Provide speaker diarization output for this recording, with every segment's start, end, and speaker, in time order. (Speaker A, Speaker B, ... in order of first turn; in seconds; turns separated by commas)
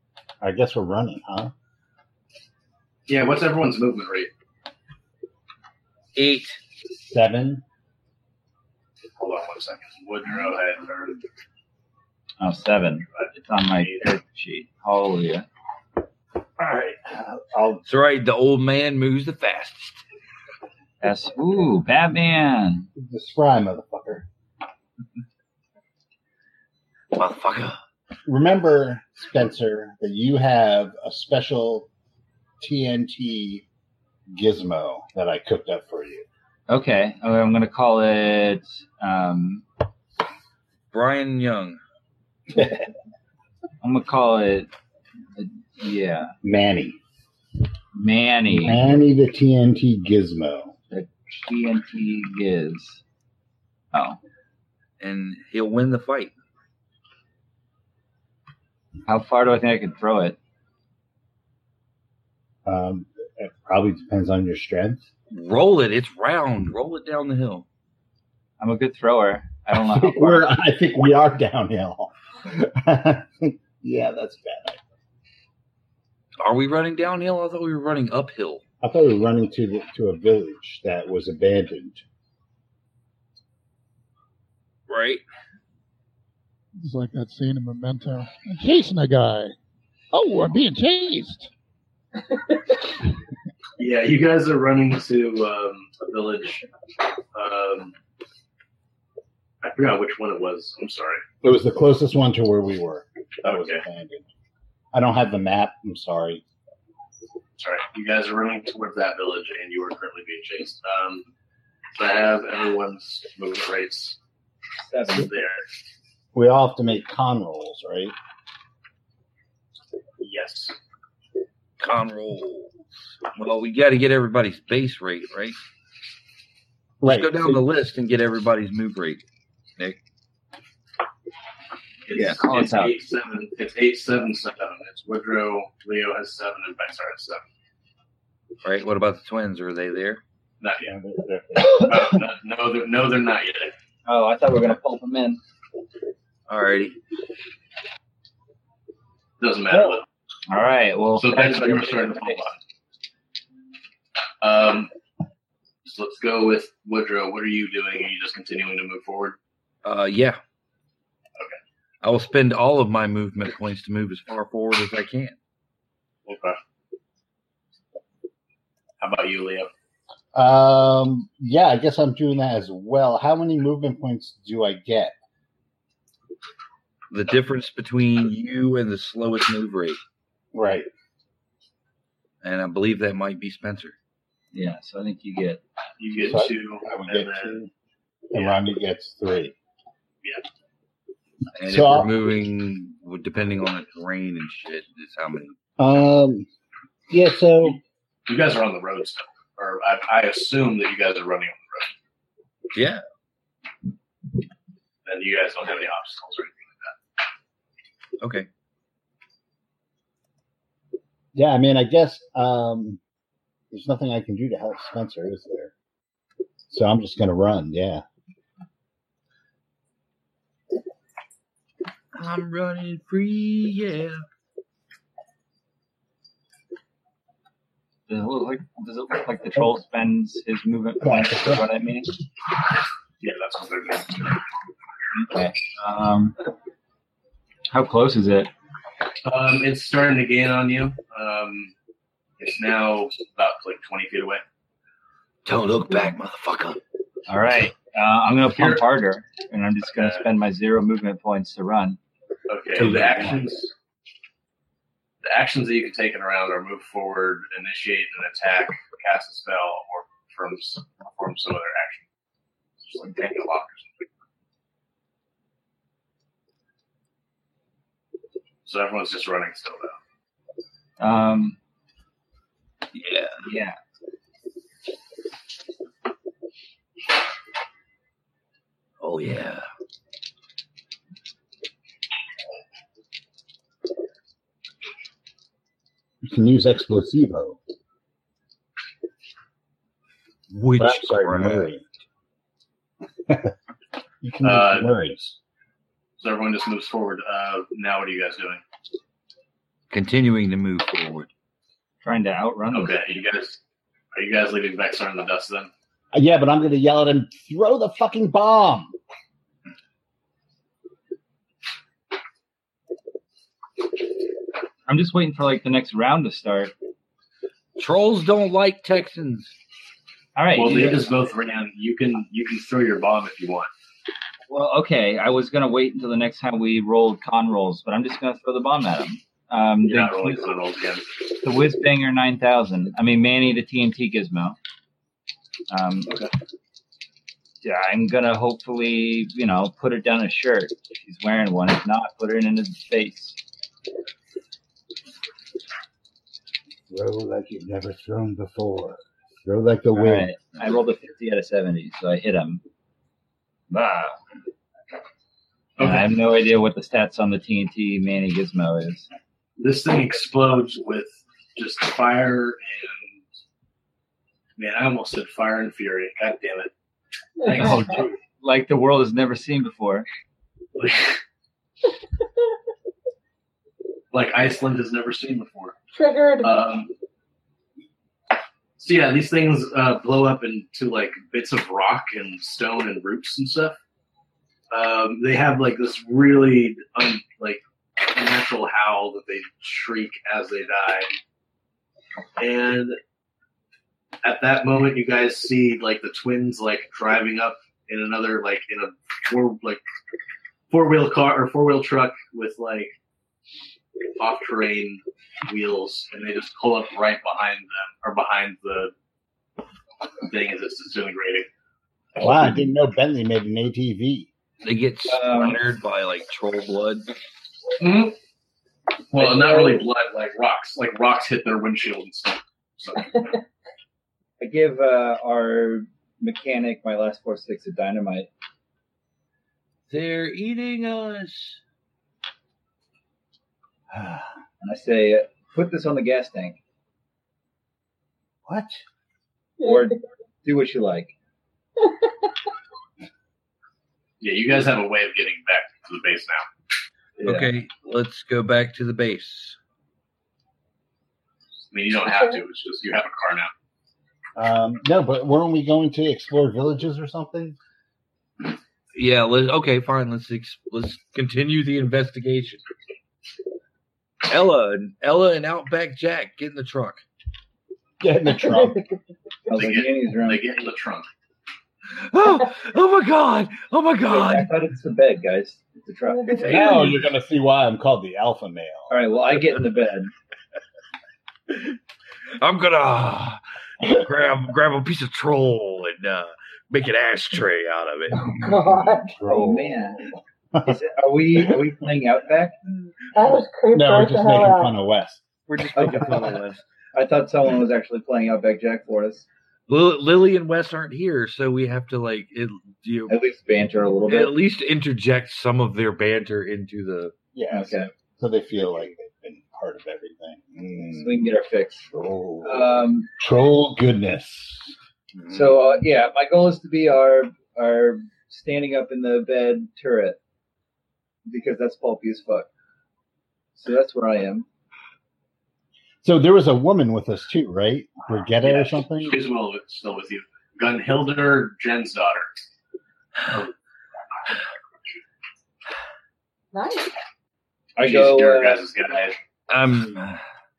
Speaker A: 0.4-1.5, Speaker B: 3.1-4.3, Speaker C: 6.2-6.6, Speaker A: 7.1-7.6, Speaker B: 9.2-11.2, Speaker D: 12.4-15.5, Speaker B: 13.2-14.1, Speaker A: 16.6-17.8, Speaker C: 17.9-20.0, Speaker D: 21.0-22.9, Speaker A: 23.0-24.3, Speaker C: 27.1-27.8, Speaker A: 28.3-31.9, Speaker A: 32.6-33.6, Speaker A: 34.3-36.3, Speaker D: 36.7-39.6, Speaker C: 40.9-41.8, Speaker A: 42.5-42.9, Speaker D: 43.8-44.7, Speaker D: 45.4-46.4, Speaker A: 46.4-47.0, Speaker D: 48.0-48.9, Speaker A: 48.6-50.8, Speaker D: 50.9-53.0, Speaker D: 53.9-54.2, Speaker C: 55.0-56.3, Speaker D: 59.1-60.4, Speaker A: 62.6-65.0, Speaker C: 65.3-67.7, Speaker D: 68.6-70.5, Speaker A: 69.8-74.8, Speaker C: 76.4-78.6, Speaker A: 78.8-82.0, Speaker C: 84.9-85.2, Speaker E: 86.8-89.5, Speaker E: 90.1-91.5, Speaker B: 93.8-96.7, Speaker B: 97.3-97.9, Speaker B: 99.6-101.2, Speaker A: 101.4-104.3, Speaker B: 103.5-103.8, Speaker A: 104.9-106.4, Speaker B: 107.6-111.3, Speaker B: 111.9-114.2, Speaker D: 114.8-115.3, Speaker B: 115.1-115.6, Speaker A: 116.3-118.2, Speaker B: 120.2-120.8, Speaker C: 121.8-122.8, Speaker C: 123.3-125.6, Speaker A: 127.0-127.6, Speaker C: 127.0-129.2, Speaker B: 132.1-137.4, Speaker D: 132.1-132.9, Speaker C: 138.6-140.2, Speaker B: 140.6-140.9, Speaker A: 140.8-142.2, Speaker B: 141.7-143.7, Speaker D: 144.1-145.4, Speaker C: 146.5-147.0, Speaker B: 149.4-150.1, Speaker D: 150.5-152.4, Speaker B: 151.2-152.6, Speaker B: 154.4-154.9, Speaker B: 155.8-159.4, Speaker C: 159.8-160.4, Speaker C: 162.0-165.4, Speaker B: 166.3-166.6, Speaker B: 169.0-169.7, Speaker A: 170.3-175.1, Speaker C: 177.1-180.0, Speaker A: 180.5-180.9, Speaker C: 182.4-183.9, Speaker D: 184.5-185.6, Speaker B: 186.0-187.6, Speaker A: 186.2-187.7, Speaker A: 188.3-189.5, Speaker B: 188.3-188.6, Speaker C: 191.6-195.6, Speaker A: 191.7-192.1, Speaker A: 195.8-196.5, Speaker A: 197.1-197.8, Speaker B: 198.3-201.9, Speaker C: 202.7-203.0, Speaker B: 205.1-207.0, Speaker C: 208.2-208.5, Speaker A: 211.3-213.0, Speaker A: 213.7-215.7, Speaker A: 216.7-218.0, Speaker C: 222.1-224.2, Speaker D: 228.1-232.1, Speaker A: 231.0-231.6, Speaker B: 233.2-234.4, Speaker D: 235.1-236.4, Speaker D: 237.7-238.5, Speaker B: 239.2-241.7, Speaker B: 242.4-244.4, Speaker C: 245.4-246.8, Speaker D: 247.3-252.0, Speaker B: 248.5-248.8, Speaker B: 249.9-250.3, Speaker B: 252.5-253.7, Speaker C: 252.8-253.4, Speaker B: 255.2-262.1, Speaker B: 262.8-264.1, Speaker B: 268.6-270.0, Speaker D: 271.0-271.6, Speaker C: 272.9-273.4, Speaker D: 273.4-273.8, Speaker C: 279.0-279.6, Speaker A: 286.2-287.6, Speaker C: 290.5-291.8, Speaker A: 290.8-291.8, Speaker A: 293.3-293.5, Speaker A: 294.2-295.4, Speaker B: 294.4-294.9, Speaker B: 296.2-298.6, Speaker C: 299.9-301.3, Speaker D: 302.0-302.9, Speaker B: 302.7-303.6, Speaker B: 304.1-305.7, Speaker A: 306.1-309.0, Speaker D: 314.9-316.7, Speaker C: 317.8-319.5, Speaker D: 320.4-321.2, Speaker B: 320.6-323.7, Speaker D: 324.5-330.4, Speaker B: 329.8-331.2, Speaker D: 331.4-334.6, Speaker D: 335.7-336.2, Speaker D: 337.6-343.4, Speaker A: 346.9-350.3, Speaker D: 349.9-352.6, Speaker D: 353.7-354.2, Speaker B: 355.8-356.1, Speaker D: 355.8-359.1, Speaker B: 359.6-363.2, Speaker B: 364.6-366.7, Speaker B: 367.4-368.1, Speaker D: 367.5-370.1, Speaker B: 370.8-371.2, Speaker B: 374.1-375.8, Speaker F: 375.9-376.5, Speaker B: 376.4-376.9, Speaker B: 378.8-383.8, Speaker B: 384.7-391.1, Speaker B: 392.4-393.0, Speaker B: 394.2-399.8, Speaker B: 400.7-402.9, Speaker B: 404.2-408.9, Speaker B: 410.2-411.5, Speaker A: 412.2-414.3, Speaker C: 414.6-417.1, Speaker D: 415.1-415.6, Speaker B: 417.8-418.2, Speaker B: 419.1-423.4, Speaker D: 419.1-419.8, Speaker D: 424.4-428.3, Speaker C: 429.9-431.6, Speaker A: 433.9-434.3, Speaker D: 434.6-436.6, Speaker A: 438.5-438.8, Speaker D: 439.6-441.1, Speaker B: 444.2-446.5, Speaker D: 447.2-447.5, Speaker C: 447.2-449.6, Speaker B: 451.7-453.5, Speaker F: 452.1-452.4, Speaker A: 454.4-457.6, Speaker C: 458.9-462.6, Speaker C: 464.3-467.0, Speaker A: 468.0-468.8, Speaker F: 468.5-468.9, Speaker D: 469.5-470.4, Speaker B: 469.5-471.1, Speaker C: 471.9-474.5, Speaker D: 474.1-476.9, Speaker F: 476.3-476.6, Speaker C: 476.4-476.9, Speaker A: 476.4-478.9, Speaker D: 478.9-480.1, Speaker C: 482.4-488.3, Speaker F: 488.2-489.2, Speaker A: 489.0-489.8, Speaker D: 489.3-490.1, Speaker D: 490.6-492.6, Speaker F: 493.1-494.7, Speaker A: 493.7-495.2, Speaker C: 495.5-496.6, Speaker D: 495.8-496.4, Speaker D: 496.9-499.3, Speaker C: 499.7-503.2, Speaker D: 503.1-504.4, Speaker C: 504.1-507.1, Speaker A: 507.3-511.3, Speaker D: 507.5-507.9, Speaker D: 510.9-511.9, Speaker A: 511.9-514.8, Speaker D: 512.4-513.1, Speaker C: 515.2-515.6, Speaker D: 515.3-520.2, Speaker D: 521.3-522.5, Speaker D: 523.5-524.5, Speaker A: 526.0-529.2, Speaker B: 529.0-532.3, Speaker F: 536.5-536.9, Speaker D: 537.8-538.6, Speaker B: 537.8-539.2, Speaker C: 539.5-540.2